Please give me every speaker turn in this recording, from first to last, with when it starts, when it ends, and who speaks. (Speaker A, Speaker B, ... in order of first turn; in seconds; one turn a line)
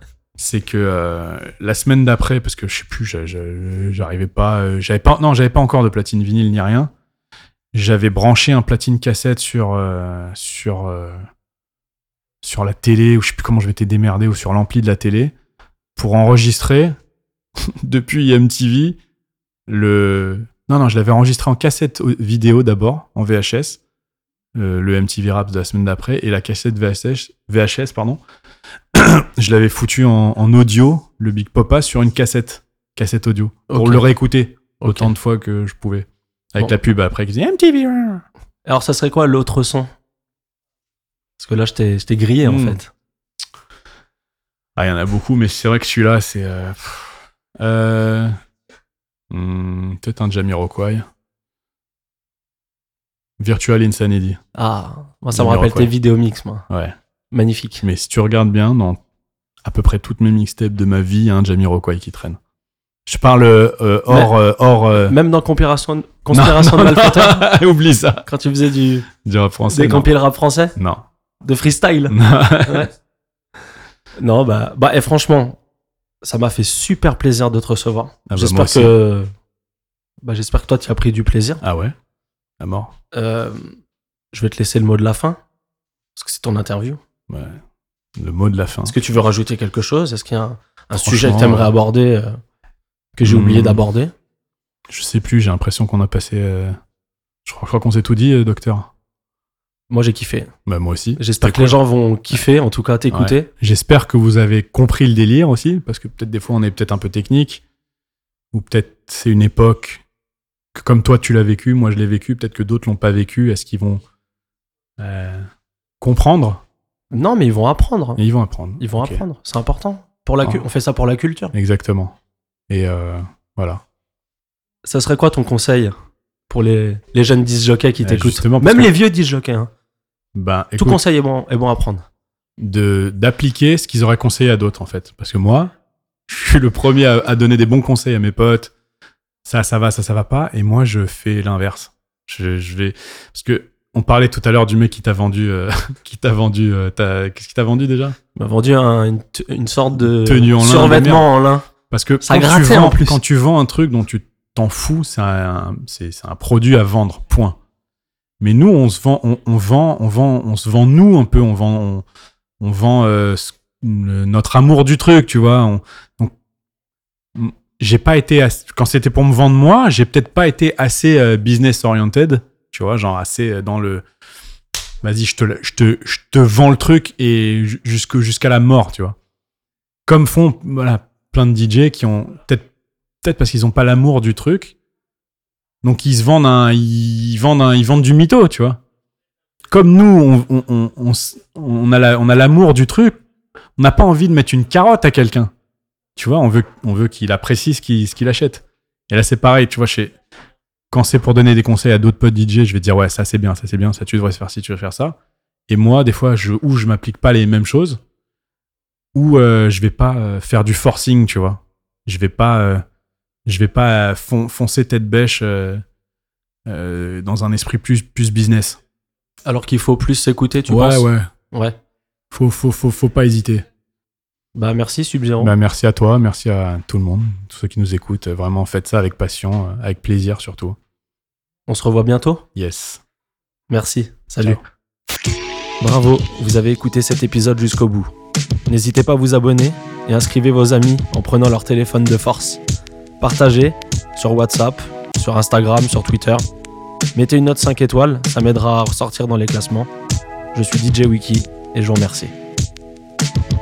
Speaker A: 0.4-6.9
Speaker A: 7.7-11.2
Speaker A: 12.4-15.3
Speaker A: 15.9-16.9
Speaker A: 17.8-19.0
Speaker A: 19.7-23.8
Speaker A: 24.5-28.2
Speaker A: 28.9-38.2
Speaker B: 33.7-34.0
Speaker B: 34.8-35.1
Speaker B: 38.6-39.9
Speaker B: 41.4-42.9
Speaker A: 42.4-42.8
Speaker A: 44.8-48.3
Speaker A: 49.3-51.0
Speaker A: 53.4-54.4
Speaker B: 54.5-56.6
Speaker A: 55.3-55.9
Speaker A: 56.7-56.9
Speaker B: 57.3-57.8
Speaker A: 57.8-59.0
Speaker A: 59.6-62.4
Speaker A: 63.0-65.1
Speaker B: 65.0-67.5
Speaker A: 66.3-68.3
Speaker B: 68.2-69.1
Speaker A: 69.2-70.1
Speaker B: 69.7-70.8
Speaker A: 70.8-71.0
Speaker B: 71.4-72.9
Speaker A: 72.1-72.9
Speaker B: 74.2-75.6
Speaker B: 76.2-79.3
Speaker A: 78.3-78.9
Speaker B: 80.2-81.6
Speaker A: 81.6-81.9
Speaker A: 82.6-82.9
Speaker B: 83.1-83.8
Speaker B: 84.3-85.4
Speaker B: 86.2-87.0
Speaker A: 87.3-87.6
Speaker A: 88.2-88.9
Speaker B: 88.8-92.3
Speaker A: 91.0-91.7
Speaker B: 93.2-94.1
Speaker A: 93.2-93.8
Speaker A: 94.9-96.8
Speaker A: 97.4-98.9
Speaker B: 99.9-100.5
Speaker A: 100.7-101.8
Speaker B: 101.2-103.5
Speaker A: 103.1-107.6
Speaker A: 108.5-110.0
Speaker A: 110.7-114.0
Speaker A: 115.0-115.4
Speaker A: 116.0-116.6
Speaker B: 117.1-118.2
Speaker A: 118.2-119.2
Speaker B: 118.8-121.5
Speaker A: 121.5-122.2
Speaker A: 122.7-123.8
Speaker B: 124.8-125.9
Speaker B: 126.5-129.7
Speaker A: 128.0-128.9
Speaker A: 130.3-131.0
Speaker B: 130.8-132.0
Speaker A: 132.6-135.7
Speaker A: 136.3-138.7
Speaker A: 139.4-148.2
Speaker B: 148.3-151.7
Speaker A: 150.1-151.3
Speaker A: 151.9-157.6
Speaker B: 152.2-153.2
Speaker A: 158.4-162.0
Speaker A: 162.6-166.3
Speaker A: 167.3-174.0
Speaker A: 175.0-179.2
Speaker A: 180.1-182.7
Speaker A: 183.2-184.8
Speaker A: 185.8-188.8
Speaker A: 189.7-193.2
Speaker A: 193.8-195.5
Speaker A: 196.2-200.1
Speaker A: 200.9-205.2
Speaker A: 205.7-208.0
Speaker A: 209.1-212.8
Speaker A: 213.4-215.8
Speaker A: 216.7-218.8
Speaker B: 219.4-221.8
Speaker A: 220.7-221.3
Speaker A: 222.3-223.6
Speaker B: 224.5-225.5
Speaker A: 225.4-230.8
Speaker B: 231.7-232.4
Speaker A: 232.5-233.0
Speaker B: 233.7-234.6
Speaker B: 235.8-238.1
Speaker B: 238.7-242.6
Speaker B: 243.2-246.4
Speaker B: 247.1-249.9
Speaker B: 250.5-252.3